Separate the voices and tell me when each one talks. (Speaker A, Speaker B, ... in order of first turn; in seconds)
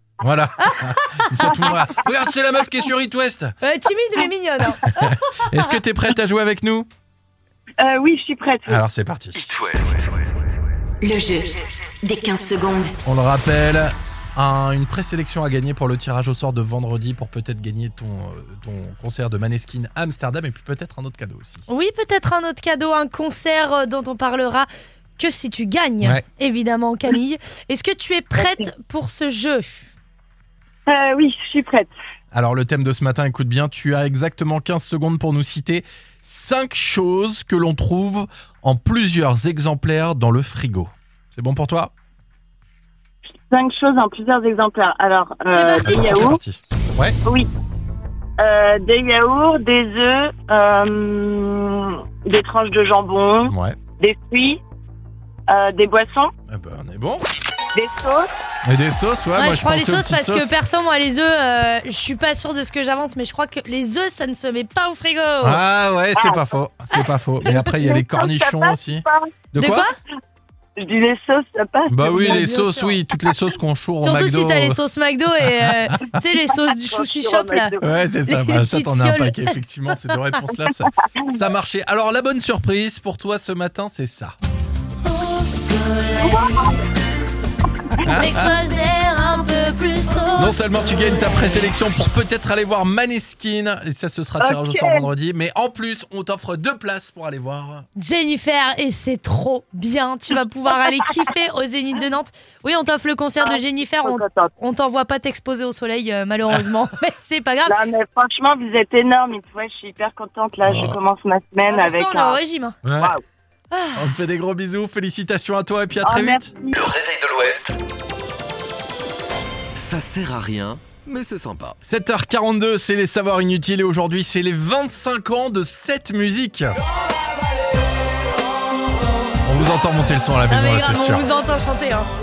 Speaker A: 0.2-3.5, 4.8-6.9, 8.7-9.5, 13.0-21.6, 32.3-41.9, 45.8-47.2, 53.4-53.8, 56.5-57.2, 58.6-60.5, 65.4-69.9, 71.9-74.8, 75.4-76.2, 77.8-84.3, 88.0-88.5, 90.3-97.8, 110.6-111.0, 112.8-113.2, 113.9-116.5, 121.8-126.8, 129.4-131.2
Speaker B: 0.6-1.5, 3.6-5.8, 21.7-29.9, 45.5-46.3, 59.3-65.6, 69.5-69.9, 72.1-73.0, 74.0-77.8, 78.3-79.5, 85.0-86.7, 88.0-91.4, 98.0-107.8, 111.7-112.8, 113.7-114.1, 130.5-132.1
Speaker C: 7.8-8.8, 28.4-28.6, 30.9-31.9, 43.5-46.4, 48.4-54.6, 55.5-56.3, 57.7-58.3, 66.2-66.4, 67.6-69.3, 70.8-72.4, 76.8-77.9, 86.2-86.8, 94.4-95.0, 103.4-104.5, 107.7-112.4, 116.0-116.8
Speaker D: 9.3-10.3, 116.7-117.8, 119.7-121.8
Speaker E: 11.0-13.0